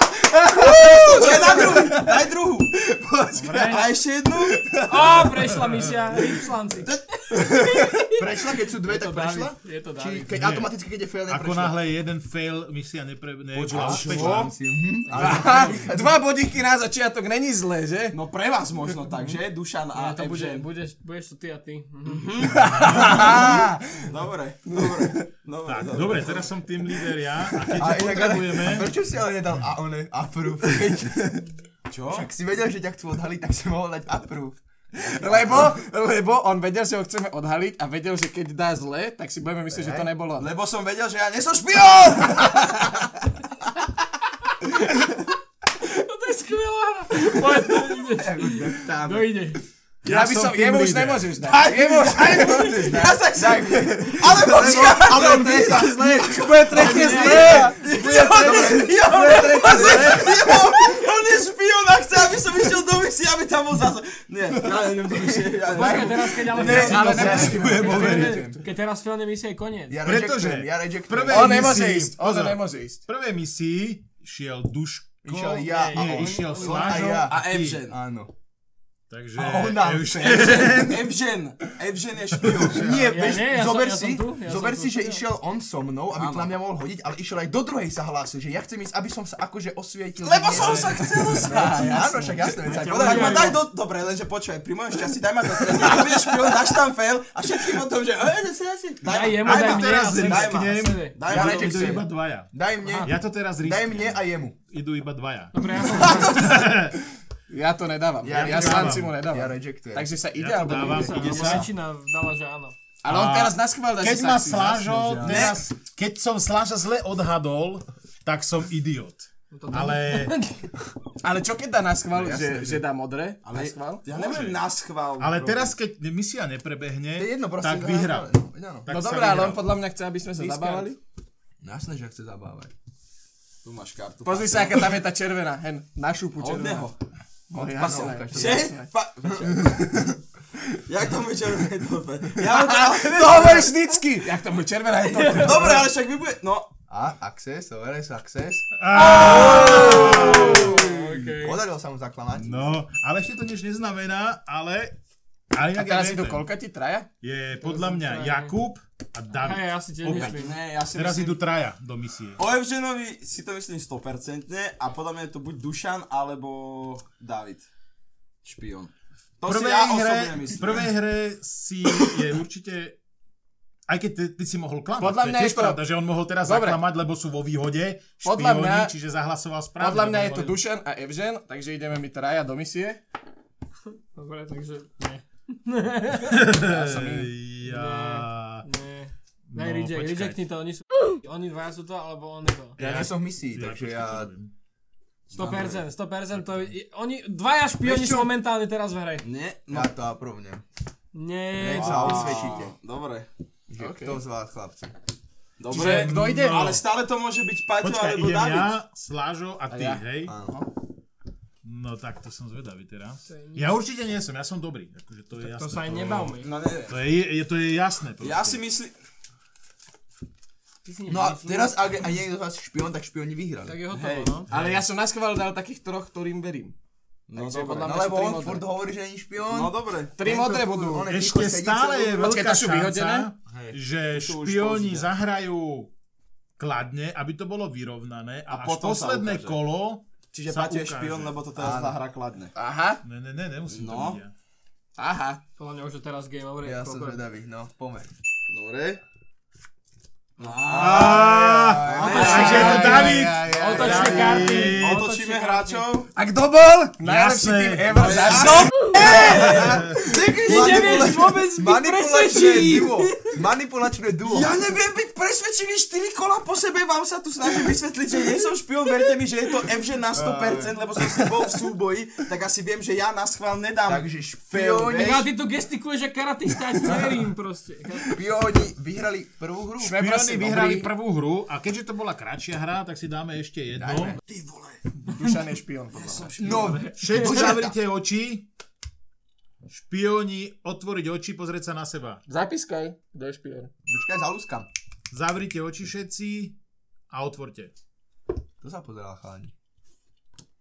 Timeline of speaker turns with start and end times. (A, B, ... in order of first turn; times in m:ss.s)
0:00.4-0:02.2 A
0:00.6-0:01.1 B
0:00.9-0:02.8 C
0:02.8-0:03.8 A
0:03.4-0:03.9 D
0:03.4-0:05.3 C
0:04.4-0:05.2 A
0:04.9-0:10.3 D
0:07.4-0:11.8 A
0:10.3-0:10.7 E
0:11.3-0:14.6 E
0:13.6-0:14.5 C
0:13.7-0:16.2 A
0:15.1-0:15.9 D
0:15.1-0:18.2 B
0:18.1-0:20.7 C
0:19.9-0:22.5 D
0:22.1-0:26.5 C
0:22.4-0:24.1 B
0:22.7-0:23.3 E
0:24.7-0:25.3 B
0:25.7-0:28.9 E
0:27.7-0:31.4 A
0:31.9-0:32.3 C
0:32.1-0:35.8 A
0:35.0-0:40.5 B
0:39.7-0:40.1 A
0:40.4-0:43.2 C
0:45.8-0:49.6 D
0:47.6-0:49.3 A
0:50.0-0:51.4 E
0:50.0-0:52.9 B
0:51.5-1:07.5 C
0:51.6-1:00.9 A
0:56.2-1:00.4 D
0:56.3-0:57.8 B
0:59.3-1:00.1 B
1:05.7-1:08.6 A
1:05.7-1:10.0 D
1:06.5-1:08.5 B
1:07.0-1:08.4 E
1:09.9-1:11.8 A
1:10.0-1:17.8 E
1:11.3-1:13.0 B
1:15.2-1:18.3 A
1:15.5-1:17.1 D
1:16.9-1:18.0 C
1:19.1-1:21.1 E
1:19.4-1:20.9 A
1:20.2-1:23.1 C
1:22.4-1:23.0 E
1:22.6-1:33.6 A
1:22.9-1:25.2 D
1:26.2-1:26.5 C
1:30.2-1:32.0 C
1:30.6-1:31.0 E
1:31.2-1:32.6 B
1:32.6-1:33.6 D
1:32.8-1:42.1 C
1:39.0-1:41.4 D
1:39.4-1:47.0 E
1:41.3-1:44.6 A
1:45.5-1:46.6 D
1:47.5-1:51.5 B
1:48.2-1:50.1 A
1:48.3-1:49.2 E
1:50.4-1:51.7 E
1:50.7-1:52.8 D
1:51.2-1:51.7 C
1:53.0-1:55.4 B
1:53.1-2:00.4 E
1:55.0-1:55.6 A
1:55.2-1:55.6 C
1:59.5-2:00.7 D
2:01.2-2:04.0 B
2:02.1-2:02.9 A
2:03.4-2:05.7 C
2:04.1-2:04.6 E
2:05.2-2:08.3 E
2:07.2-2:08.9 A
2:08.8-2:09.8 E
2:08.9-2:11.0 B
2:10.4-2:10.9 A
2:11.6-2:12.7 A
2:13.6-2:15.0 C
2:14.2-2:16.9 B
2:16.4-2:17.0 C
2:17.5-2:18.9 B
2:17.6-2:18.8 A
2:17.8-2:19.9 C
2:19.3-2:20.2 A
2:20.9-2:23.9 C
2:22.4-2:25.9 B
2:25.2-2:25.7 D
2:25.2-2:26.7 C
2:26.9-2:32.8 A
2:28.7-2:30.7 E
2:29.0-2:31.6 D
2:29.2-2:30.8 C
2:32.4-2:35.0 E
2:35.5-2:36.5 E
2:35.8-2:37.1 B
2:37.2-2:42.4 E
2:37.6-2:38.5 D
2:39.3-2:40.6 D
2:40.1-2:41.4 C
2:42.4-2:47.7 C
2:48.4-2:50.9 C
2:49.4-2:53.0 E
2:53.9-3:00.6 E
2:55.0-2:55.8 B
2:56.4-2:56.8 B
2:58.2-2:58.9 B
2:59.8-3:03.0 B
3:04.2-3:06.4 D
3:06.2-3:08.7 E
3:06.5-3:07.3 B
3:07.6-3:12.8 D
3:09.5-3:10.4 E
3:12.8-3:14.3 A
3:12.8-3:14.5 E
3:15.3-3:19.3 D
3:15.3-3:15.8 C
3:17.8-3:18.3 A
3:19.2-3:19.9 C
3:19.7-3:20.6 A
3:21.1-3:22.6 D
3:21.6-3:22.7 A
3:21.6-3:23.3 C
3:23.7-3:24.9 A
3:23.8-3:24.2 B
3:25.6-3:28.7 C
3:25.7-3:26.7 B
3:25.7-3:26.8 E
3:27.8-3:30.4 E
3:29.7-3:30.6 B
3:30.3-3:30.6 A
3:31.6-3:38.6 E
3:33.3-3:33.7 D
3:35.4-3:36.5 D
3:36.4-3:37.0 C
3:38.2-3:39.0 C
3:40.8-3:41.7 D
3:41.1-3:43.8 A
3:43.6-3:44.5 D
3:43.9-3:44.4 C
3:44.5-3:46.7 B
3:44.5-3:44.9 E
3:47.3-3:48.1 C
3:47.3-3:48.6 B
3:47.8-3:52.4 A
3:49.4-3:50.2 C
3:50.2-3:51.1 B
3:51.1-3:55.9 E
3:52.2-3:53.3 B
3:53.5-3:55.1 C
3:56.6-4:01.4 E
3:58.5-3:59.6 C
4:00.3-4:02.6 C
4:01.6-4:02.0 A
4:02.6-4:03.0 B
4:03.0-4:04.3 E
4:03.7-4:04.2 C
4:05.0-4:05.4 B
4:05.6-4:07.2 D
4:06.6-4:08.1 A
4:08.5-4:09.0 C
4:10.4-4:13.0 C
4:10.7-4:15.0 E
4:10.8-4:12.8 A
4:12.0-4:15.9 D
4:12.1-4:14.7 B
4:14.6-4:16.1 C
4:16.2-4:18.9 B
4:17.0-4:18.2 E
4:18.0-4:21.2 C
4:18.7-4:23.4 D
4:18.9-4:24.5 A
4:24.3-4:35.3 C
4:30.1-4:31.3 A
4:33.9-4:35.2 A
4:34.9-4:38.2 D
4:36.8-4:37.2 A
4:38.1-4:40.0 A
4:39.8-4:40.9 B
4:39.9-4:44.2 E
4:43.8-4:44.2 A
4:44.3-4:44.8 C
4:45.0-4:46.5 B
4:45.9-4:46.9 C
4:46.4-4:47.8 A
4:46.5-4:47.3 D
4:47.0-4:48.5 E
4:49.7-4:52.2 E
4:52.3-4:53.7 B
4:53.9-4:54.7 A
4:55.1-4:56.6 E
4:57.1-4:57.7 E
4:58.6-4:59.5 A